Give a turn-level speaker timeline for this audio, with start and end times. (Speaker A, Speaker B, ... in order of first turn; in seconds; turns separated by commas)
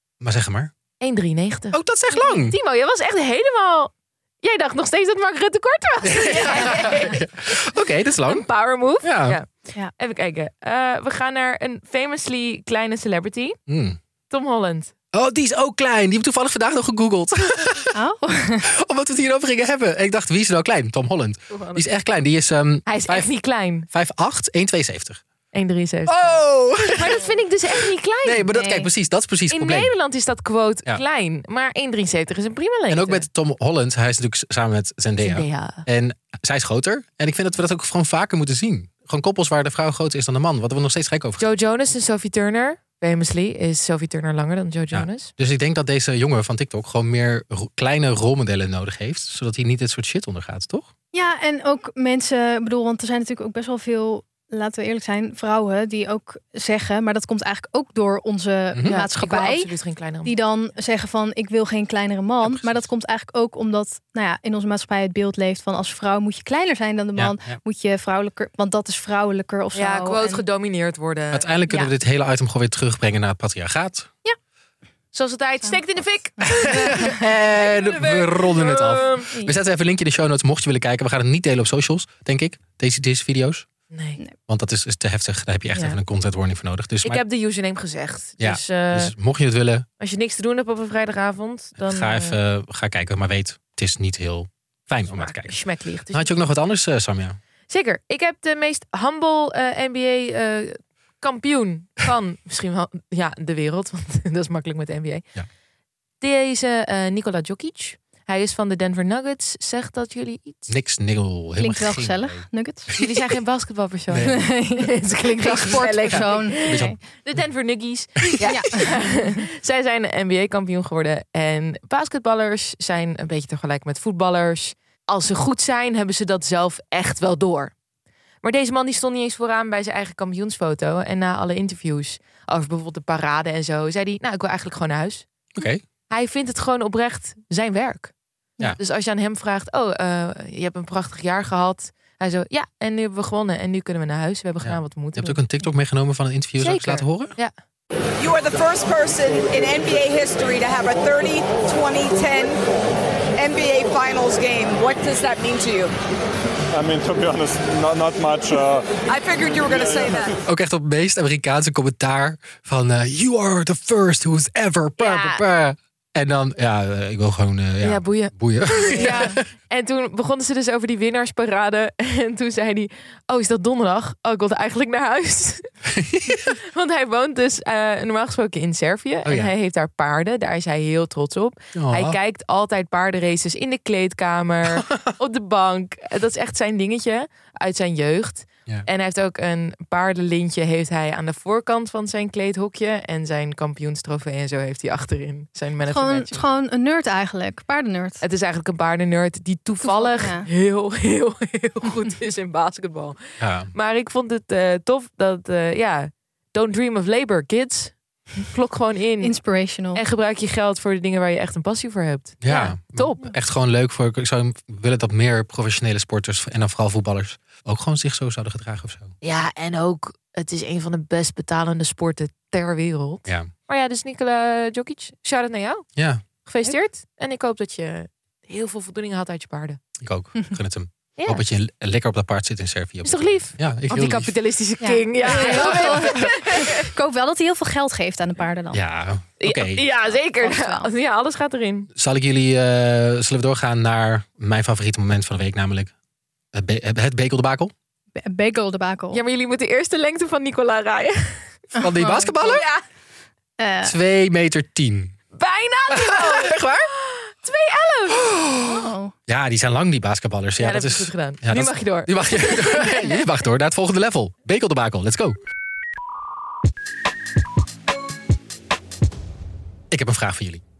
Speaker A: 0.2-0.7, Speaker B: 1.0-7.2, Speaker A: 1.7-2.6, Speaker A: 6.1-8.5, Speaker B: 8.2-13.6, Speaker A: 9.0-9.4, Speaker A: 13.7-14.0, Speaker B: 14.3-14.9, Speaker A: 15.1-17.9, Speaker C: 17.9-18.7, Speaker A: 18.7-23.3, Speaker B: 21.5-21.9, Speaker B: 22.9-23.9, Speaker A: 23.9-25.2, Speaker B: 25.5-26.4, Speaker A: 26.1-27.2, Speaker B: 27.0-28.5, Speaker A: 28.2-29.9, Speaker C: 28.5-28.9, Speaker B: 29.5-33.3, Speaker A: 32.9-41.5, Speaker B: 35.2-35.9, Speaker B: 41.4-45.3, Speaker A: 44.9-50.9, Speaker C: 51.1-59.7, Speaker B: 58.8-60.4, Speaker C: 60.2-70.4, Speaker A: 62.4-62.9, Speaker A: 67.2-67.6, Speaker B: 69.8-71.5, Speaker A: 71.3-74.1, Speaker B: 75.1-79.3, Speaker C: 76.4-77.1, Speaker A: 76.4-83.7, Speaker B: 83.9-84.2, Speaker A: 84.5-87.2, Speaker B: 85.7-86.0, Speaker B: 87.0-89.1, Speaker A: 88.4-89.9, Speaker B: 90.0-92.4, Speaker A: 91.8-95.6, Speaker B: 95.1-96.3, Speaker A: 96.1-97.4, Speaker B: 97.7-105.2, Speaker B: 106.2-110.7, Speaker A: 110.7-113.1, Speaker C: 111.6-112.9, Speaker B: 113.0-127.7, Speaker A: 114.1-114.5, Speaker C: 114.2-117.0, Speaker A: 116.1-117.4, Speaker C: 118.5-119.0, Speaker B: 128.4-135.3, Speaker A: 135.5-135.8, Speaker B: 136.1-138.1, Speaker B: 138.8-145.4, Speaker A: 144.6-147.3, Speaker B: 146.6-147.5, Speaker D: 148.2-152.6, Speaker D: 153.4-155.9, Speaker E: 156.7-159.0, Speaker D: 159.1-160.3, Speaker E: 159.5-160.2, Speaker A: 160.4-169.4, Speaker B: 165.0-165.4, Speaker B: 167.8-175.7, Speaker C: 169.0-169.3, Speaker A: 175.9-176.5, Speaker B: 176.5-196.4, Speaker A: 179.2-179.5, Speaker A: 181.8-182.2, Speaker A: 184.8-185.1, Speaker C: 195.9-198.2, Speaker B: 198.2-209.4, Speaker C: 199.8-200.5, Speaker A: 203.4-203.7, Speaker C: 209.2-210.0, Speaker B: 209.9-213.3, Speaker A: 212.4-219.1, Speaker B: 219.2-225.8, Speaker A: 223.2-223.5, Speaker A: 226.0-226.2, Speaker B: 226.4-229.8, Speaker A: 230.0-234.3, Speaker B: 231.2-231.4, Speaker B: 233.0-236.8, Speaker C: 234.8-238.8, Speaker A: 235.2-236.2, Speaker A: 238.7-239.9, Speaker B: 239.4-241.9, Speaker C: 240.4-240.9, Speaker A: 241.9-245.9, Speaker A: 246.5-247.7, Speaker C: 248.2-249.2, Speaker B: 249.1-251.6, Speaker A: 251.8-252.6, Speaker C: 251.8-252.6, Speaker B: 252.4-252.8, Speaker C: 253.6-253.9, Speaker A: 253.8-255.2, Speaker B: 255.3-258.2, Speaker A: 255.9-256.9, Speaker A: 258.2-265.4, Speaker C: 258.6-259.1, Speaker B: 260.6-263.1, Speaker A: 269.9-270.6